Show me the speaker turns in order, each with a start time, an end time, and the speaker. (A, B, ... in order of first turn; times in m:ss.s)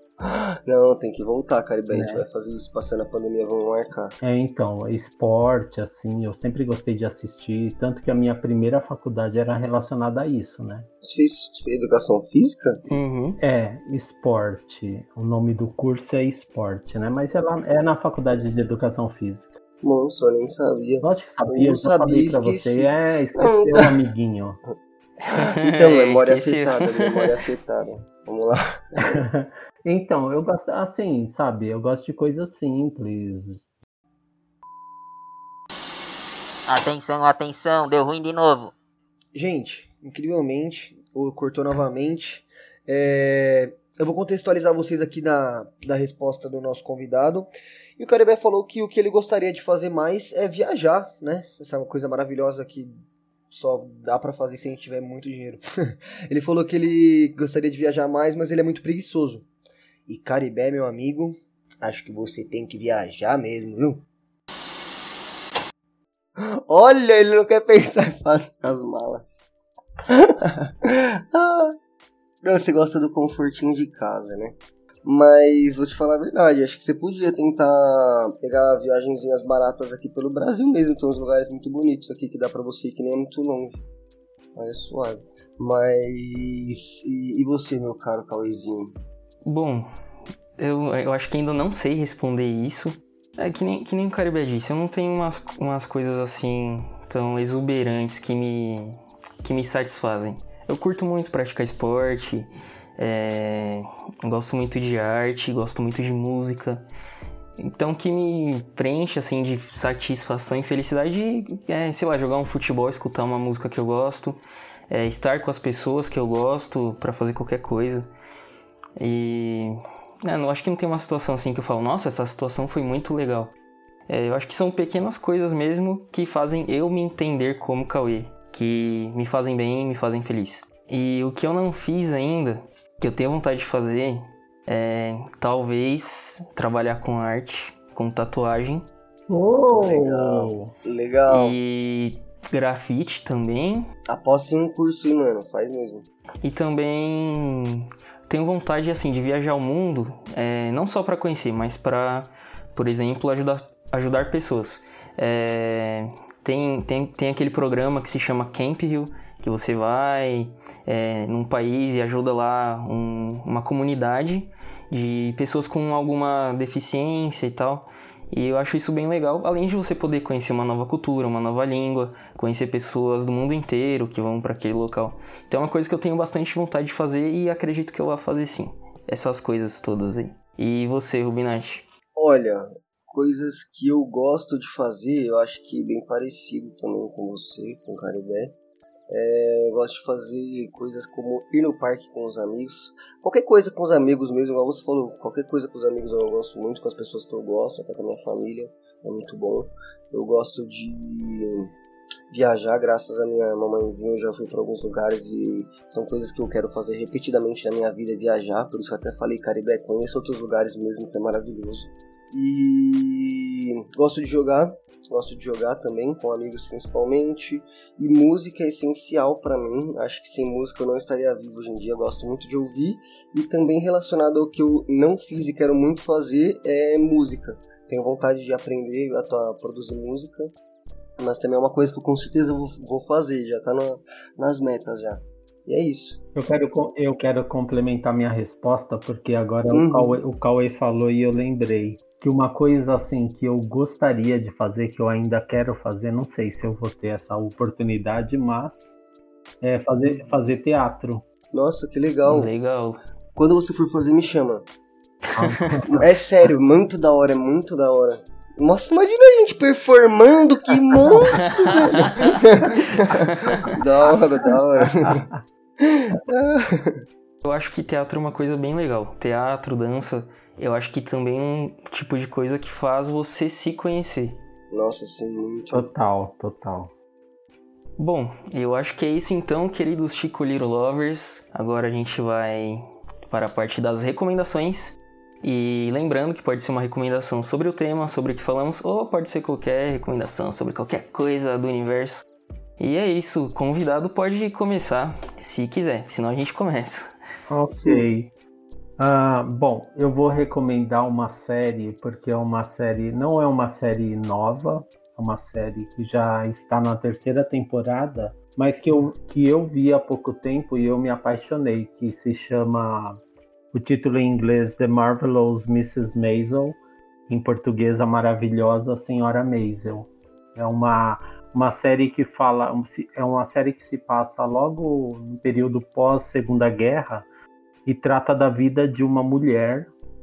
0:00.2-0:04.1 A
0:01.9-0:02.2 B
0:04.2-0:10.9 B
0:11.0-0:12.8 A
0:12.9-0:13.4 C
0:13.4-0:19.6 B
0:19.8-0:23.9 A
0:21.0-0:24.6 B
0:25.2-0:27.4 C
0:25.4-0:29.1 A
0:29.0-0:33.6 B
0:36.7-0:38.7 D
0:39.4-0:53.0 A
0:53.5-0:59.5 A
1:00.1-1:04.0 A
1:06.4-1:09.4 A
1:10.1-1:11.8 A
1:12.4-1:23.8 A
1:24.6-1:29.0 A
1:29.4-1:29.9 C
1:30.6-1:46.8 C
1:47.6-1:58.1 C
1:59.0-2:03.5 C
2:04.1-2:18.8 C
2:19.3-2:20.7 B
2:19.7-2:21.6 A
2:21.3-2:23.9 C
2:24.1-2:26.1 A
2:26.4-3:01.9 C
3:02.2-3:08.6 A
3:09.1-3:21.7 A
3:22.3-3:50.5 A
3:51.2-3:56.2 A
3:56.4-4:09.0 B
3:59.7-4:00.2 A
4:09.6-4:11.2 B
4:11.5-4:12.5 A
4:12.3-4:13.0 C
4:13.4-4:14.7 A
4:15.4-4:16.0 B
4:15.4-4:15.8 C
4:15.9-4:25.3 A
4:23.1-4:23.7 C
4:25.0-4:25.4 B
4:25.8-4:27.0 A
4:27.4-4:34.4 C
4:34.7-4:35.9 A
4:35.7-4:36.9 B
4:38.0-4:52.2 C
4:52.8-4:57.1 C
4:57.5-4:58.3 B
4:59.0-5:13.2 B
5:13.7-5:27.3 B
5:27.9-5:29.9 B